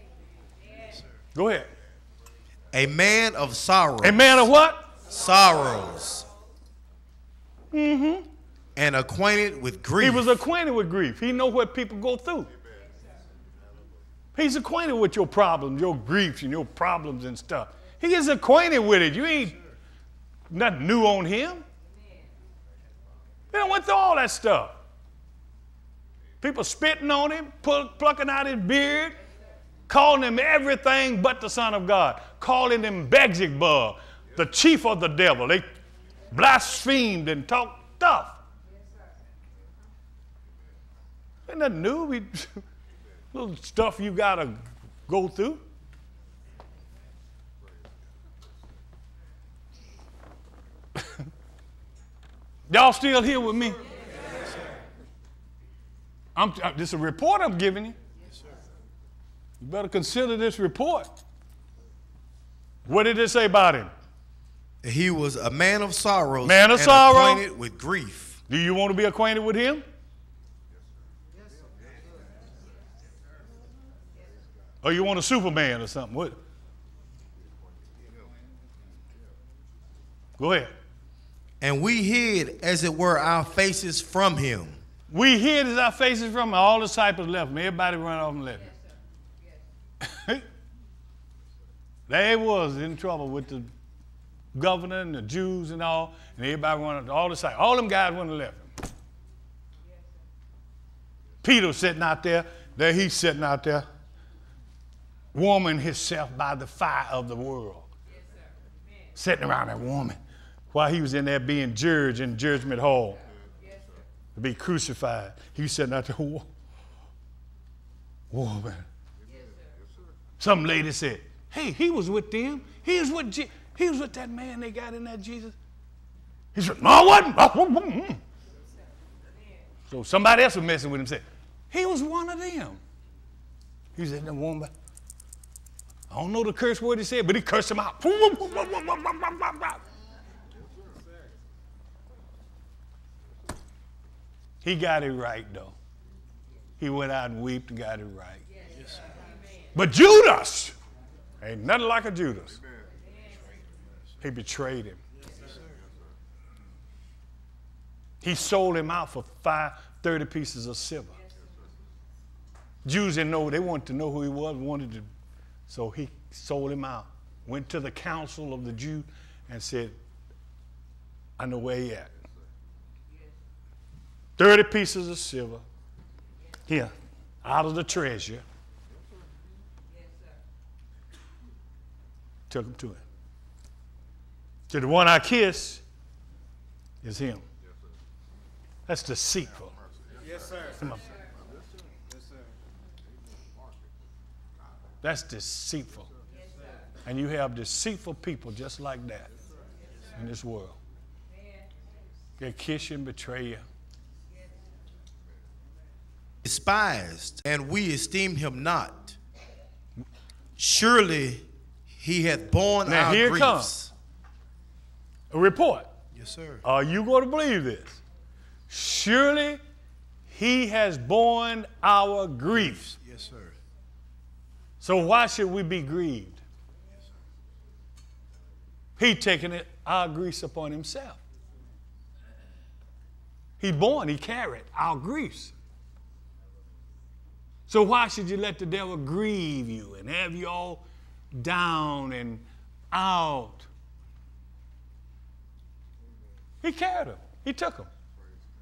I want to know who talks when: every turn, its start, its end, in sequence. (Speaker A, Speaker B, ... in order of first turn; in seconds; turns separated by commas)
Speaker A: 0.8-1.1, Speaker B: 1.3-1.7, Speaker A: 2.7-4.5, Speaker B: 4.0-4.9, Speaker A: 5.1-6.3, Speaker B: 7.7-8.3, Speaker A: 8.8-10.4, Speaker B: 10.0-12.5, Speaker B: 14.3-19.6, Speaker B: 20.5-21.6, Speaker B: 23.5-24.8, Speaker B: 26.4-29.2, Speaker B: 29.9-35.7, Speaker B: 36.3-38.4, Speaker B: 41.5-42.6, Speaker B: 43.3-45.6, Speaker B: 52.7-53.8, Speaker B: 56.3-58.0, Speaker A: 58.2-58.5, Speaker B: 59.6-61.1, Speaker B: 62.9-63.9, Speaker A: 64.8-68.4, Speaker B: 66.4-67.4, Speaker B: 68.5-69.8, Speaker B: 74.8-76.4, Speaker B: 80.4-80.7, Speaker A: 81.6-84.8, Speaker B: 85.1-88.7, Speaker B: 90.0-90.4, Speaker B: 92.1-93.7, Speaker B: 94.5-98.7, Speaker B: 101.4-103.8, Speaker B: 105.3-107.9, Speaker B: 109.2-110.2, Speaker B: 110.7-113.2, Speaker B: 114.3-116.5, Speaker B: 118.3-118.9, Speaker B: 120.4-125.5, Speaker B: 126.5-128.2, Speaker B: 129.9-132.8, Speaker B: 133.9-134.7, Speaker B: 136.1-139.8, Speaker B: 144.6-145.7, Speaker B: 146.8-148.4, Speaker A: 148.6-149.0, Speaker B: 149.7-150.7, Speaker B: 151.4-152.6, Speaker B: 154.2-155.0, Speaker A: 155.1-155.8, Speaker B: 158.2-161.2, Speaker B: 162.8-165.1, Speaker B: 165.7-169.9, Speaker B: 171.4-172.2, Speaker B: 174.4-175.6, Speaker B: 177.4-178.4, Speaker B: 182.5-183.0, Speaker B: 184.7-185.8, Speaker B: 187.0-187.4, Speaker B: 188.9-189.7, Speaker B: 190.7-191.0, Speaker B: 195.0-196.1, Speaker B: 197.1-199.3, Speaker B: 200.1-200.8, Speaker B: 202.4-203.6, Speaker A: 206.4-209.2, Speaker A: 210.6-213.9, Speaker B: 212.8-213.7, Speaker B: 215.3-215.9, Speaker A: 216.1-216.6, Speaker B: 216.6-218.0, Speaker B: 218.7-219.6, Speaker B: 220.3-222.9, Speaker A: 222.5-223.5, Speaker B: 224.8-226.4, Speaker B: 229.0-231.2, Speaker B: 233.6-235.5, Speaker B: 237.7-243.7, Speaker B: 246.6-247.9